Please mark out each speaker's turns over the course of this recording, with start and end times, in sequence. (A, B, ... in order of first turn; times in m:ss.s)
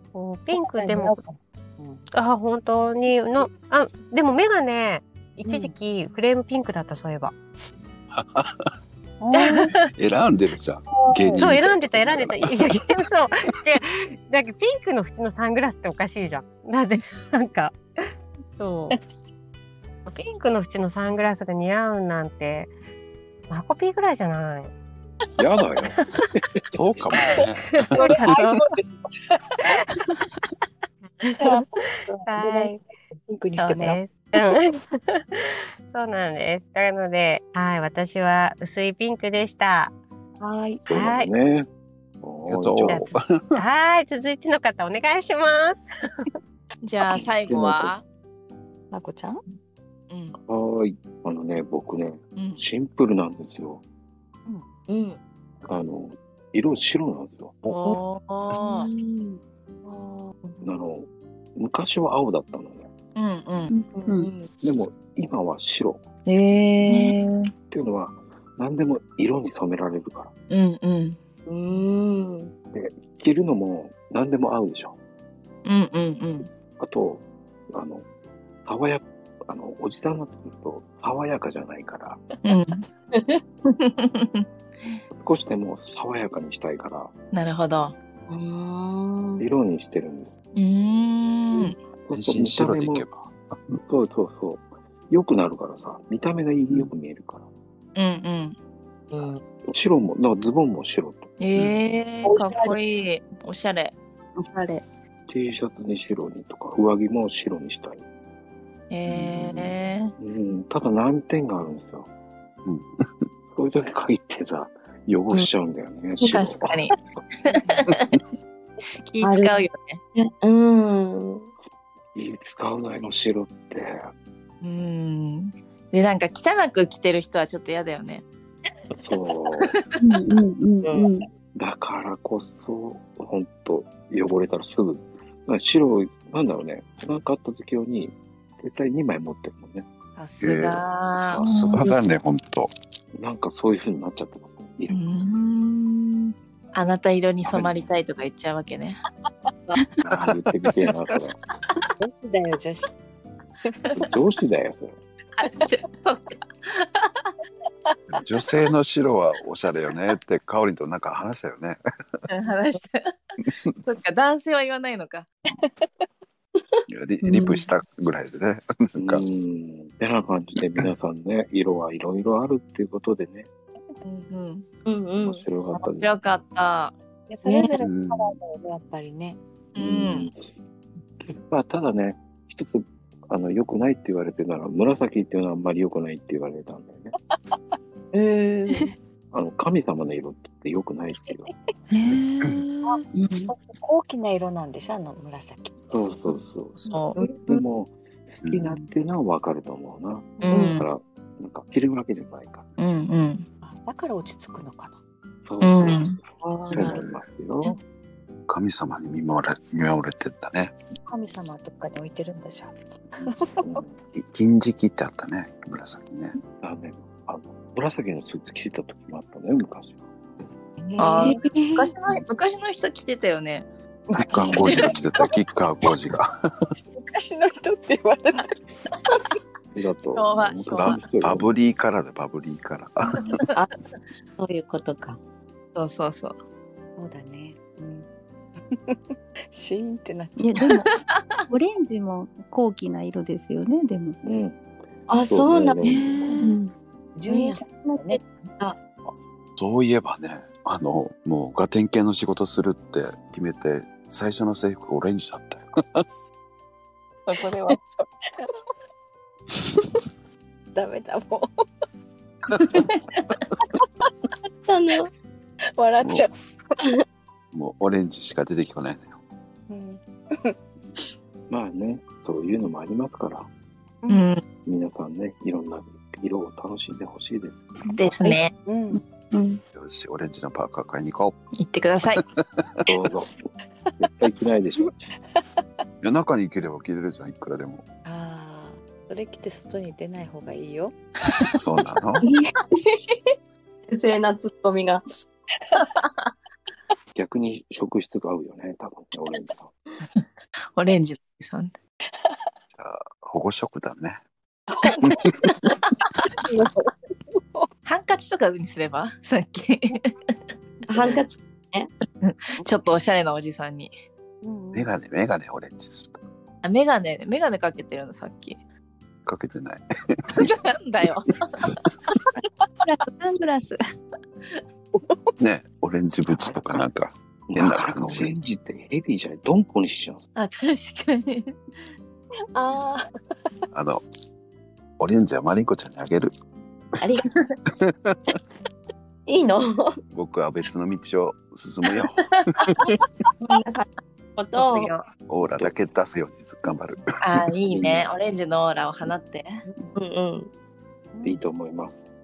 0:00.1-0:01.2 A
0:00.6-0:02.1 B
0:02.1-0:07.3 A
0:05.4-0:05.7 B
0:08.1-0:08.7 C
0:09.2-0:09.7 B
0:09.3-0:09.7 A
0:10.0-0:12.8 C
0:11.1-0:11.5 B
0:11.3-0:19.0 A
0:20.1-0:22.7 A
0:23.5-0:24.7 A
0:25.4-0:27.0 D
0:26.7-0:28.0 C
0:27.1-0:27.4 B
0:27.1-0:28.6 A
0:28.0-0:29.8 B
0:31.2-0:31.6 A
0:31.4-0:34.6 B
0:32.3-0:32.8 A
0:33.6-0:39.9 A
0:40.4-0:40.9 B
0:40.9-0:41.7 D
0:40.9-0:41.3 A
0:42.2-0:43.1 D
0:42.5-0:43.6 C
0:42.9-0:45.9 A
0:46.8-0:48.0 E
0:47.0-0:47.9 D
0:48.9-0:49.4 B
0:50.1-0:50.4 E
0:50.4-0:53.8 D
0:52.4-0:52.6 E
0:54.9-0:55.2 F
0:55.6-0:57.6 D
0:57.7-0:58.9 E
0:58.6-0:59.3 G
0:58.8-0:59.0 B
0:59.8-1:00.7 B
1:00.6-1:02.9 D
1:03.2-1:03.7 E
1:03.7-1:04.3 G
1:04.1-1:04.5 F
1:04.6-1:06.0 D
1:06.3-1:07.5 E
1:06.8-1:07.2 H
1:07.7-1:10.3 D
1:10.5-1:11.2 E
1:11.5-1:12.5 F
1:12.7-1:15.0 D
1:15.6-1:16.5 E
1:16.8-1:18.1 D
1:18.6-1:22.2 D
1:22.4-1:22.9 E
1:23.1-1:23.4 F
1:23.6-1:25.0 E
1:25.1-1:27.1 D
1:27.3-1:28.0 E
1:28.3-1:29.4 F
1:29.4-1:30.4 D
1:30.6-1:31.8 E
1:32.1-1:33.0 D
1:32.1-1:33.8 C
1:33.9-1:37.4 D
1:38.0-1:38.6 E
1:39.1-1:39.4 F
1:39.6-1:41.3 D
1:41.4-1:44.0 E
1:42.2-1:42.8 G
1:44.4-1:44.8 G
1:45.3-1:48.0 D
1:48.9-1:50.1 E
1:49.2-1:49.5 D
1:50.2-1:52.1 D
1:52.6-1:53.0 C
1:53.5-1:57.0 D
1:56.3-1:58.1 E
1:59.0-2:00.0 E
1:59.2-2:01.5 F
2:02.1-2:04.1 D
2:04.6-2:08.2 E
2:08.9-2:09.9 D
2:10.0-2:11.3 G
2:10.8-2:11.1 F
2:11.6-2:19.9 D
2:20.2-2:21.9 E
2:20.4-2:22.7 C
2:23.1-2:25.1 D
2:24.9-2:29.0 E
2:27.5-2:27.8 D
2:30.1-2:31.4 D
2:30.1-2:30.9 C
2:32.0-2:32.9 B
2:33.6-2:33.9 B
2:33.9-2:35.0 D
2:35.3-2:37.3 E
2:38.1-2:41.8 C
2:42.3-2:43.1 E
2:43.8-2:45.3 E
2:45.5-2:45.9 B
2:46.9-2:49.2 C
2:47.2-2:47.7 G
2:49.0-2:53.5 D
2:54.0-2:54.6 E
2:54.9-2:55.4 F
2:55.2-2:56.2 D
2:55.7-2:56.9 E
2:57.3-2:59.4 B
2:57.5-2:57.8 F
2:57.8-2:58.4 C
2:59.8-3:00.3 E
2:59.8-3:00.4 D
3:01.2-3:07.1 D
3:07.2-3:07.6 B
3:08.1-3:08.9 F
3:09.3-3:11.5 D
3:11.9-3:13.1 H
3:12.9-3:15.8 B
3:13.1-3:13.5 G
3:15.9-3:22.7 D
3:16.9-3:17.2 E
3:17.2-3:17.6 B
3:18.4-3:18.9 C
3:20.4-3:20.8 E
3:20.5-3:20.8 F
3:22.8-3:23.5 E
3:23.6-3:25.0 B
3:25.5-3:27.8 D
3:25.6-3:26.2 E
3:26.4-3:27.0 F
3:28.5-3:30.8 C
3:31.1-3:33.8 B
3:33.3-3:34.0 D
3:34.1-3:36.4 C
3:36.6-3:40.0 D
3:40.8-3:41.4 B
3:41.0-3:43.7 E
3:41.1-3:41.9 G
3:44.1-3:44.8 B
3:44.1-3:46.4 C
3:44.3-3:45.1 D
3:44.4-3:44.9 E
3:46.9-3:48.6 B
3:49.7-3:51.5 D
3:50.2-3:51.0 E
3:50.8-3:53.4 C
3:54.4-3:55.2 F
3:55.8-3:56.4 E
3:57.0-3:58.1 B
3:58.7-3:59.0 B
3:59.5-4:00.8 B
4:00.4-4:00.9 G
4:01.5-4:04.2 G
4:04.2-4:04.6 D
4:05.1-4:05.8 F
4:05.3-4:06.5 D
4:05.8-4:06.5 H
4:06.4-4:06.7 G
4:07.2-4:08.2 B
4:07.3-4:08.8 F
4:09.6-4:16.0 C
4:17.3-4:17.6 E
4:17.3-4:18.5 B
4:20.8-4:21.5 B
4:22.6-4:22.9 B
4:23.6-4:24.1 B
4:24.7-4:25.1 F
4:25.8-4:26.8 B
4:26.0-4:26.3 C
4:27.5-4:29.1 C
4:29.7-4:30.6 B
4:31.5-4:33.5 D
4:34.1-4:34.4 E
4:34.6-4:37.8 D
4:37.8-4:38.1 H
4:38.0-4:38.5 E
4:38.6-4:39.0 B
4:38.9-4:39.6 G
4:39.7-4:41.4 C
4:41.6-4:42.2 E
4:42.6-4:42.9 C
4:42.8-4:43.4 D
4:44.0-4:45.0 D
4:44.8-4:45.4 B
4:46.0-4:47.8 C
4:48.0-4:50.9 B
4:51.6-4:52.2 C
4:53.9-4:55.1 F
4:57.1-4:59.7 D
5:00.8-5:01.7 E
5:02.8-5:04.2 C
5:04.7-5:07.7 B
5:05.0-5:05.5 C
5:07.9-5:10.1 E
5:10.9-5:11.9 F
5:10.9-5:11.2 E
5:12.2-5:13.9 E
5:14.4-5:14.9 B
5:14.7-5:16.2 C
5:16.6-5:18.6 E
5:19.3-5:20.5 C
5:20.3-5:21.8 E
5:23.0-5:23.8 G
5:25.4-5:28.4 C
5:27.5-5:30.2 D
5:30.4-5:31.6 E
5:32.6-5:33.0 B
5:33.7-5:34.0 C
5:35.0-5:36.3 C
5:37.0-5:37.3 F
5:37.8-5:38.4 C
5:39.3-5:40.0 F
5:40.1-5:42.8 C
5:43.4-5:44.9 F
5:44.6-5:45.0 E
5:45.3-5:47.5 C
5:45.5-5:45.7 D
5:47.2-5:49.6 E
5:47.7-5:48.1 D
5:50.0-5:50.5 F
5:51.1-5:51.4 B
5:51.2-5:52.0 D